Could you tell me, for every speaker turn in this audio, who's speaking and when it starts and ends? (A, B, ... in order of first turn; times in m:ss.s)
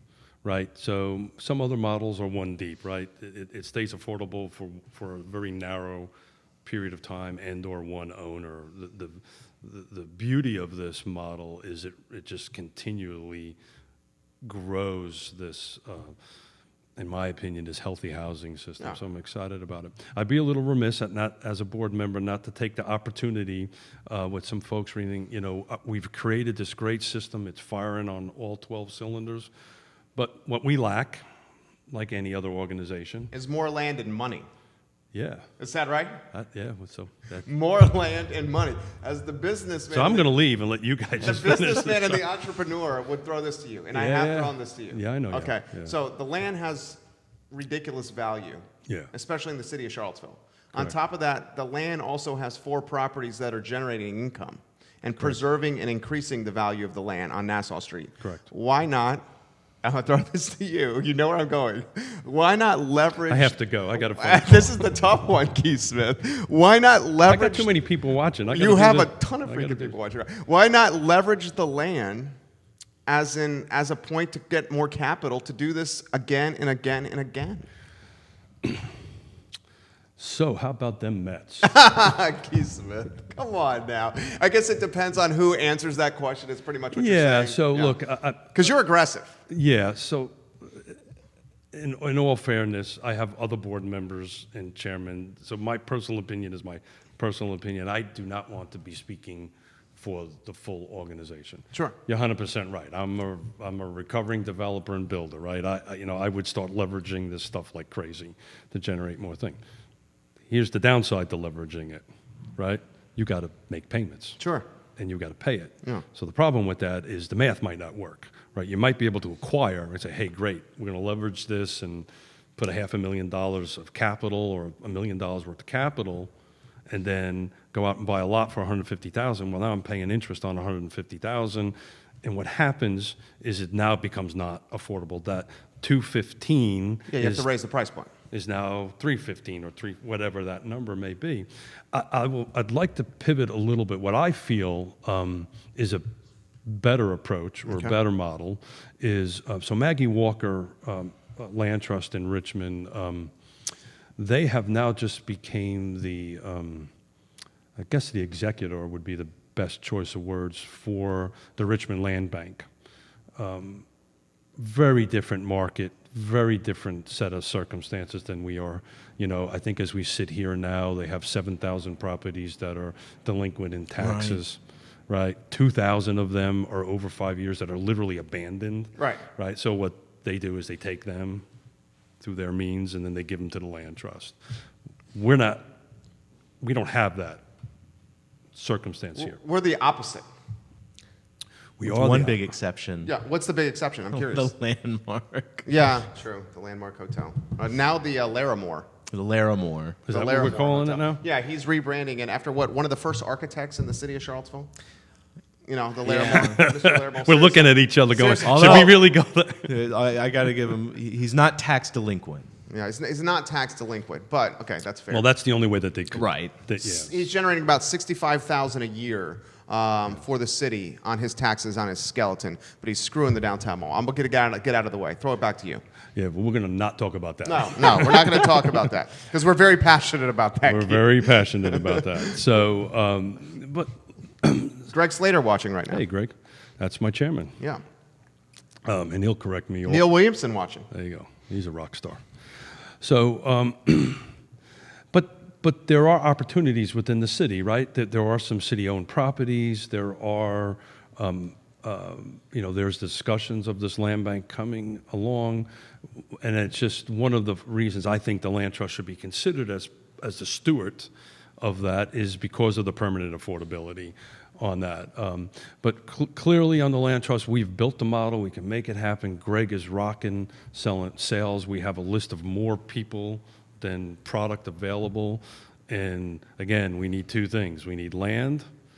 0:00.4-0:06.1 A
0:06.6-0:13.6 A
0:14.4-0:16.1 A
0:17.0-0:29.5 A
0:30.2-0:31.2 A
0:31.9-0:33.3 A
0:33.3-0:34.5 B
0:35.1-0:35.5 A
0:35.6-0:36.2 B
0:36.3-0:37.5 A
0:37.4-0:40.3 B
0:39.9-0:42.3 A
0:41.2-0:47.0 B
0:43.9-0:45.9 A
0:47.5-0:59.2 B
0:58.2-0:58.4 A
0:59.8-1:07.7 B
1:03.3-1:04.8 A
1:07.2-1:10.0 A
1:08.5-1:12.3 B
1:13.0-1:17.6 B
1:20.2-1:21.7 A
1:21.6-1:28.0 B
1:26.9-1:28.7 A
1:28.5-1:29.4 B
1:29.5-1:31.0 A
1:31.7-1:49.6 A
1:50.5-1:52.0 A
1:52.6-1:54.4 A
1:54.4-1:54.6 B
1:55.0-2:06.3 A
2:06.9-2:17.5 A
2:17.1-2:18.1 B
2:18.3-2:26.0 A
2:26.6-2:33.3 A
2:27.7-2:27.9 B
2:34.2-2:36.9 A
2:37.8-2:42.7 A
2:43.4-2:43.8 A
2:44.6-3:01.4 A
2:54.0-2:54.4 C
2:59.0-2:59.2 B
3:02.2-3:04.4 A
3:05.1-3:05.6 A
3:06.6-3:07.4 A
3:08.5-3:09.4 A
3:09.2-3:10.2 B
3:11.8-3:12.5 A
3:11.8-3:13.1 C
3:13.0-3:14.5 B
3:14.1-3:15.7 C
3:15.6-3:18.9 B
3:19.1-3:20.0 C
3:20.0-3:21.2 A
3:20.1-3:24.7 B
3:25.6-3:28.9 B
3:26.0-3:26.6 C
3:26.3-3:29.7 A
3:28.4-3:28.9 C
3:29.7-3:32.5 C
3:32.7-3:35.3 B
3:35.1-3:37.1 A
3:36.1-3:36.5 C
3:36.8-3:45.8 B
3:46.2-3:48.5 A
3:47.4-3:52.1 B
3:50.7-3:54.9 A
3:54.9-3:56.0 B
3:55.9-3:57.5 A
3:58.8-4:00.1 A
3:59.9-4:00.9 B
4:00.9-4:02.2 A
4:03.0-4:04.2 A
4:05.1-4:15.7 A
4:16.4-4:38.6 A